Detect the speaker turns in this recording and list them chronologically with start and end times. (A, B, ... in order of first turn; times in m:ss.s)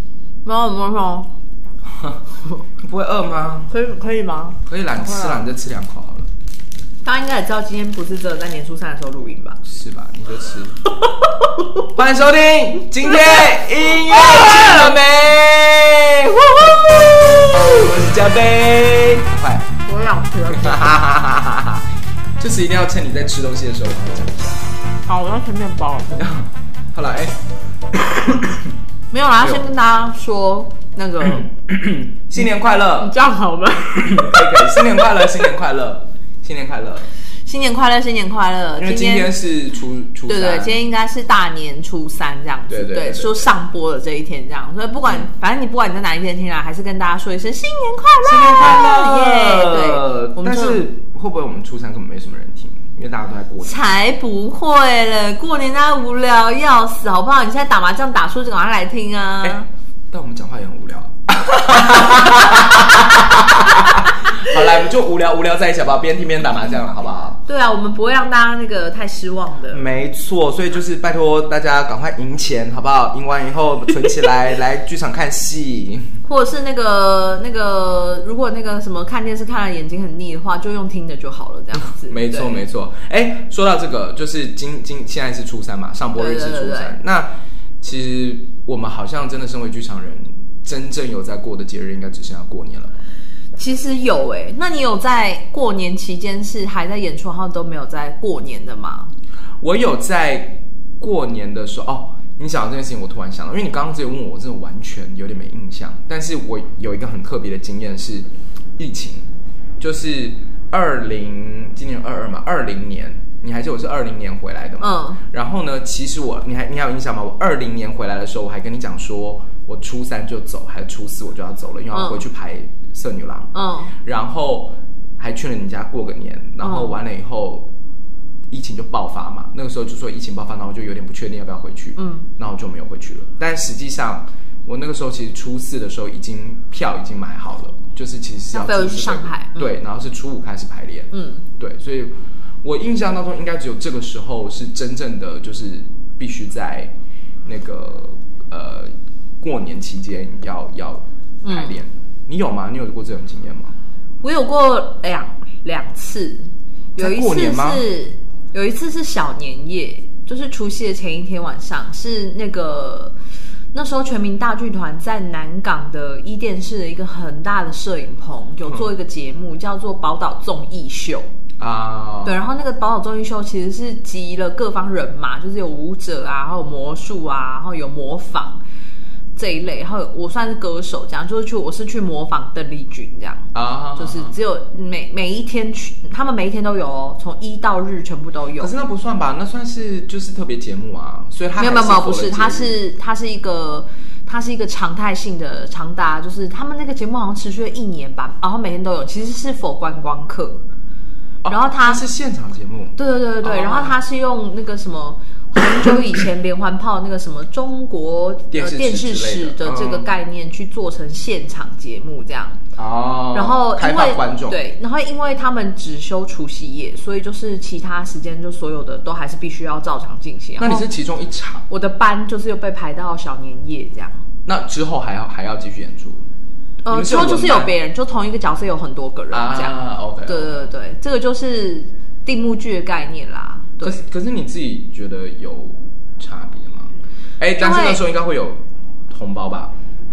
0:00.4-0:01.3 A
0:01.8-0:03.7 B
0:03.7-0:05.5 A
0:04.6-0:06.3 B
0:07.0-0:09.6 A
0:09.6-0:10.8 B
0:11.0-0:11.8 A
0:11.9-0:19.7 B
0:13.0-0:14.9 A
0:19.8-0:21.0 A
0:20.5-0:21.8 B
0:22.4-0:24.7 B
0:25.0-0:26.2 A
0:26.1-0:27.4 B
0:28.2-0:28.6 B
0:29.1-0:31.5 A
0:29.4-0:29.7 B
0:31.2-0:33.1 B
0:33.0-0:35.2 A
0:33.9-0:37.1 B
0:37.4-0:39.3 A
0:38.8-0:40.8 B
0:40.3-0:50.8 A
0:42.7-0:43.5 B
0:48.2-0:53.8 B
0:53.6-0:59.7 A
0:59.4-1:07.4 B
1:07.4-1:09.9 A
1:09.7-1:16.2 B
1:16.2-1:22.6 A
1:21.8-1:33.0 B
1:26.1-1:27.0 A
1:33.6-1:39.1 A
1:39.6-1:49.3 B
1:49.8-2:07.7 B
1:54.8-1:55.2 A
2:01.9-2:02.2 A
2:03.5-2:03.9 A
2:06.6-2:07.0 A
2:08.5-2:26.9 B
2:12.0-2:12.3 A
2:18.5-2:19.7 A
2:21.1-2:21.4 A
2:27.4-2:33.7 B
2:31.4-2:31.8 A
2:34.2-2:43.1 A
2:37.0-2:37.8 B
2:43.7-2:51.3 A
2:51.6-2:52.5 B
2:52.2-2:58.6 A
2:59.4-3:08.7 A
3:03.5-3:04.3 B
3:08.6-3:12.8 B
3:11.6-3:20.6 A
3:21.4-3:24.0 B
3:21.5-3:22.0 A
3:23.0-3:32.6 A
3:28.5-3:30.1 B
3:32.8-3:34.6 B
3:33.3-3:40.9 A
3:40.6-3:41.6 B
3:41.7-3:44.2 A
3:44.4-3:46.2 B
3:46.8-3:54.0 A
3:46.9-3:47.7 B
3:49.3-3:50.7 B
3:53.8-3:59.7 B
3:57.6-3:58.0 A